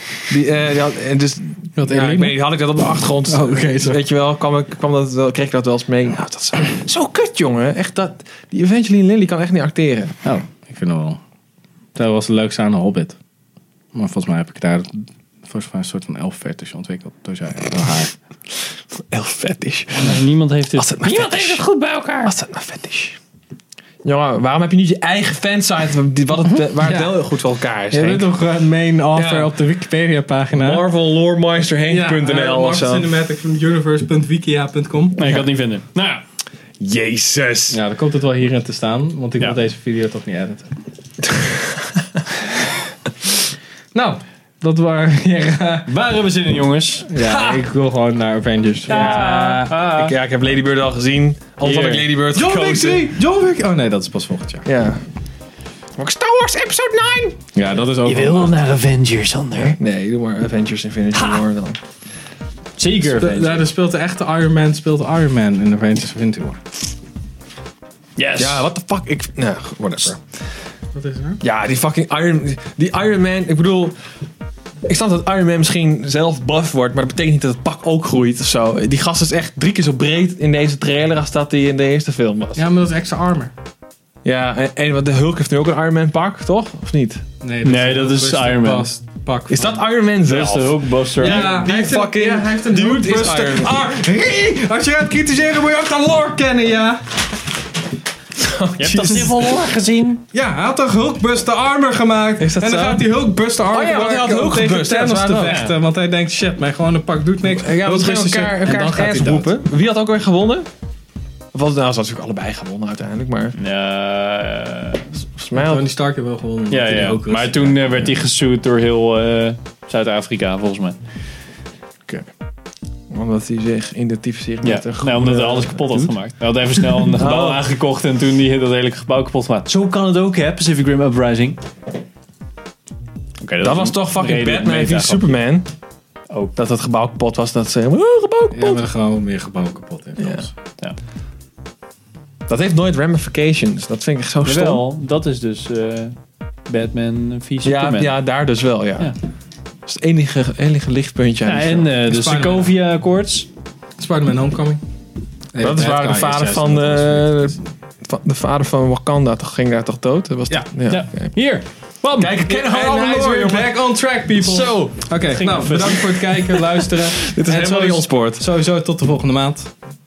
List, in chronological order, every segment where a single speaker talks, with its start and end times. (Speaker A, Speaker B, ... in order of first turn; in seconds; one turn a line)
Speaker A: 0.3-10.2
Speaker B: 1.8-2.4
Speaker B: 3.3-4.0
Speaker B: 10.2-11.2
Speaker B: 11.9-13.2
Speaker B: 13.9-18.1
Speaker A: 19.0-20.2
Speaker C: 19.9-21.8
Speaker A: 20.7-23.2
Speaker A: 24.0-28.3
Speaker B: 26.8-27.2
Speaker B: 27.9-30.9
Speaker A: 29.1-29.6
Speaker A: 30.6-33.1
Speaker B: 31.9-35.3
Speaker C: 35.2-36.2
Speaker A: 36.8-37.8
Speaker B: 37.7-40.7
Speaker B: 43.9-45.9
Speaker C: 45.9-47.1
Speaker B: 47.1-49.8
Speaker A: 47.2-47.6
Speaker C: 48.9-50.1
Speaker A: 48.9-49.3
Speaker A: 49.9-53.1
Speaker C: 51.6-52.0
Speaker B: 51.7-54.7
Speaker A: 54.6-55.0
Speaker A: 56.0-57.4
Speaker B: 57.5-58.6
Speaker C: 58.0-59.8
Speaker A: 59.6-61.8
Speaker C: 61.1-61.4
Speaker C: 62.8-63.7
Speaker B: 63.0-66.6
Speaker C: 68.2-68.7
Speaker A: 68.4-70.2
Speaker B: 71.0-71.4
Speaker A: 71.4-74.0
Speaker A: 74.8-82.6
Speaker B: 82.6-83.5
Speaker A: 84.2-87.2
Speaker B: 87.4-89.8
Speaker C: 87.7-88.9
Speaker A: 89.5-93.8
Speaker C: 90.2-91.6
Speaker B: 91.2-97.0
Speaker A: 98.4-99.6
Speaker C: 98.8-100.2
Speaker B: 100.3-109.5
Speaker A: 102.4-103.1
Speaker A: 103.7-105.6
Speaker C: 105.5-105.8
Speaker A: 107.5-110.7
Speaker A: 111.5-113.6
Speaker C: 113.5-115.0
Speaker A: 115.3-115.8
Speaker B: 115.5-118.1
Speaker C: 116.7-121.0
Speaker A: 123.1-126.1
Speaker C: 124.6-131.6
Speaker A: 127.1-127.6
Speaker C: 133.4-135.4
Speaker A: 133.6-135.7
Speaker A: 136.6-138.8
Speaker B: 138.5-140.5
Speaker A: 140.2-140.4
Speaker A: 142.5-144.8
Speaker C: 144.4-146.2
Speaker C: 146.7-148.2
Speaker A: 147.6-149.1
Speaker A: 149.9-151.9
Speaker C: 151.5-153.5
Speaker B: 152.1-152.7
Speaker B: 154.0-154.8
Speaker B: 155.5-157.6
Speaker A: 155.6-161.4
Speaker C: 160.5-162.4
Speaker A: 162.2-165.1
Speaker B: 162.4-169.7
Speaker C: 165.3-166.3
Speaker A: 165.7-166.2
Speaker A: 166.7-168.4